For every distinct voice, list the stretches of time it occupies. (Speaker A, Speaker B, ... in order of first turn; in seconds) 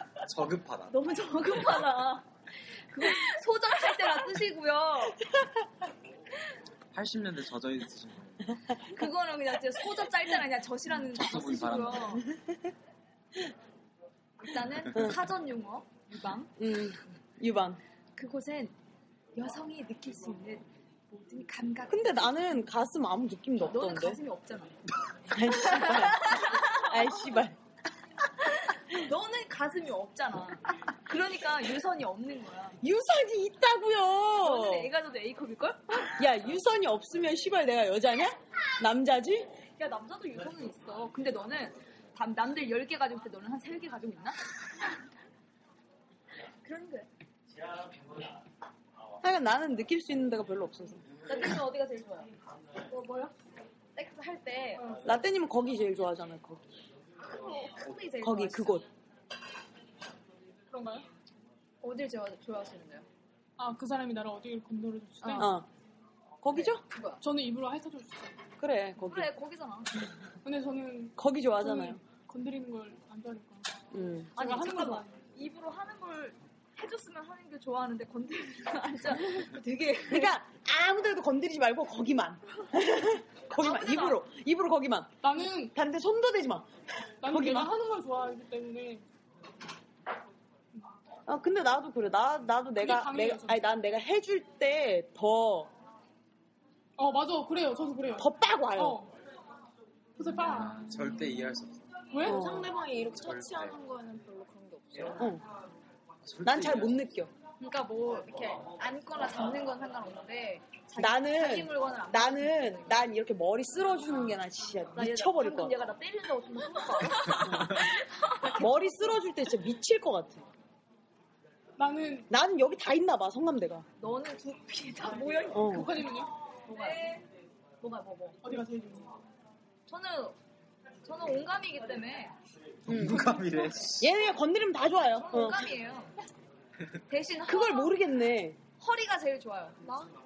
Speaker A: 0.2-1.0, 6.9-8.5, 10.9-12.2, 100.4-101.8, 103.2-103.8, 106.2-107.0, 132.9-134.1
Speaker B: 0.9-5.2, 8.8-12.2, 14.4-16.5, 18.1-18.7, 19.3-22.4, 23.6-24.8, 25.3-27.1, 28.9-32.8, 34.4-36.1, 39.8-44.4, 46.6-47.1, 51.3-52.3, 52.9-53.3, 53.9-54.9, 57.2-58.8, 61.8-63.0, 65.2-65.5, 66.5-67.2, 69.0-70.1, 74.3-80.3, 83.6-84.2, 107.6-112.9, 115.0-118.8, 124.0-127.2, 127.8-128.4, 129.9-130.4, 131.0-132.3, 135.2-136.1, 137.1-138.0, 138.8-140.0
Speaker C: 14.9-15.2, 16.6-17.8, 21.9-24.2, 25.3-27.6, 32.8-34.9, 36.1-39.5, 49.2-51.0, 55.0-56.6, 58.2-58.9, 65.4-65.7, 66.4-66.8, 68.6-69.3, 71.2-72.0, 73.9-74.3, 80.1-85.1, 85.7-86.7, 87.2-87.7, 91.3-95.7, 98.2-99.0, 102.2-102.7, 105.2-105.4, 106.4-107.3, 111.0-115.8, 117.3-117.8, 118.4-120.4, 122.3-123.8, 125.5-125.9, 132.9-133.4, 134.0-135.7, 137.4-138.6
Speaker D: 60.7-61.1, 63.6-65.5, 67.2-68.3, 70.4-73.7, 74.4-75.1, 85.2-85.7, 87.2-89.0, 92.8-93.6, 97.0-99.1, 100.2-100.8, 102.1-102.5, 121.8-122.3, 125.7-126.3, 128.4-129.1
Speaker E: 102.2-105.4